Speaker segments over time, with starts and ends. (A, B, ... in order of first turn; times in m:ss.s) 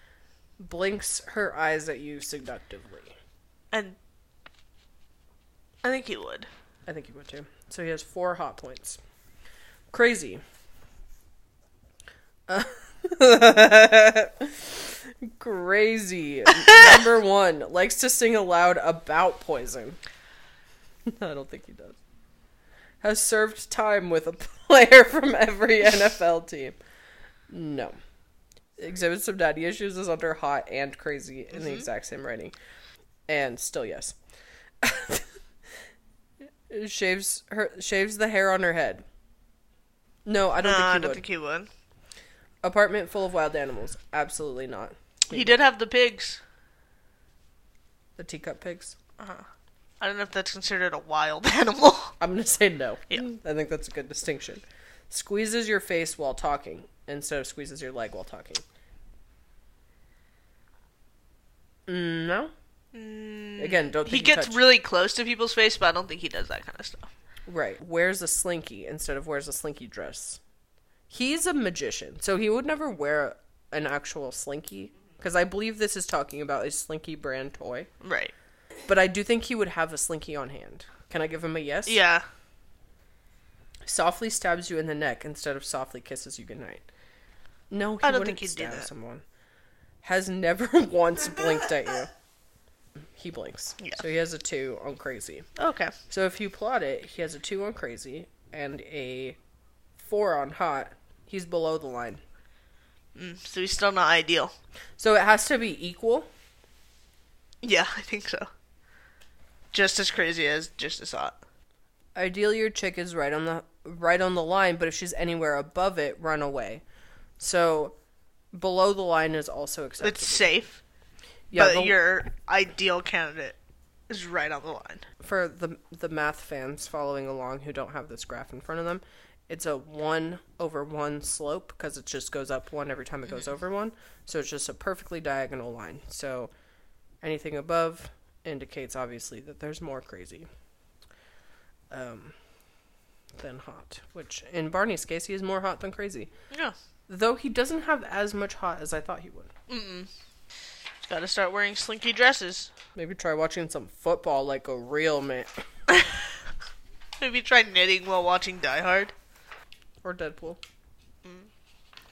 0:00.6-0:03.2 A
0:03.7-0:04.0 B
0:05.8-0:06.5 B
0:06.9-0:09.0 A
0:09.9-0:10.4 A
0:12.5-0:20.0 A
0:16.7-0:17.0 B
0:21.1-0:22.0 A
0:23.0-0:26.8 A
0:27.5-0:28.0 A
0:28.8-0:32.5 A
0:31.5-0:31.9 B
0:33.3-0:34.2 A
0:34.8-0:35.3 A
0:36.7-0:39.0 A
0:40.2-0:41.2 A
0:40.6-0:41.7 B
0:42.6-0:45.6 A
0:45.3-0:46.4 B
0:48.2-0:49.0 A
0:49.2-0:49.4 B
0:50.0-0:52.1 B
0:52.2-0:58.6 A
1:01.9-1:02.5 A
1:02.9-1:07.1 B
1:03.6-1:04.6 A
1:07.5-1:10.4 A
1:11.1-1:17.9 A
1:18.0-1:18.3 B
1:18.9-1:22.0 A
1:21.9-1:22.2 B
1:23.8-1:26.8 A
1:27.7-1:29.2 A
1:28.0-1:28.9 B
1:30.0-1:32.1 A
1:33.2-1:35.5 A
1:35.6-1:35.9 B
1:36.1-1:39.4 A
1:40.0-1:42.2 A
1:43.2-1:44.5 B
1:45.0-1:46.3 A
1:47.6-1:48.5 B
1:49.7-1:51.4 B
1:52.2-1:56.8 A
1:57.4-1:58.0 A
1:58.5-2:00.5 A
2:00.0-2:00.8 B
2:01.5-2:02.0 A
2:01.5-2:03.6 B
2:04.1-2:05.0 B
2:05.2-2:16.5 A
2:17.2-2:20.5 A
2:21.9-2:22.4 A
2:23.4-2:26.3 A
2:27.1-2:29.5 A
2:29.7-2:30.1 B
2:31.0-2:32.7 B
2:33.0-2:35.5 A
2:37.2-2:39.1 B
2:40.0-2:40.6 A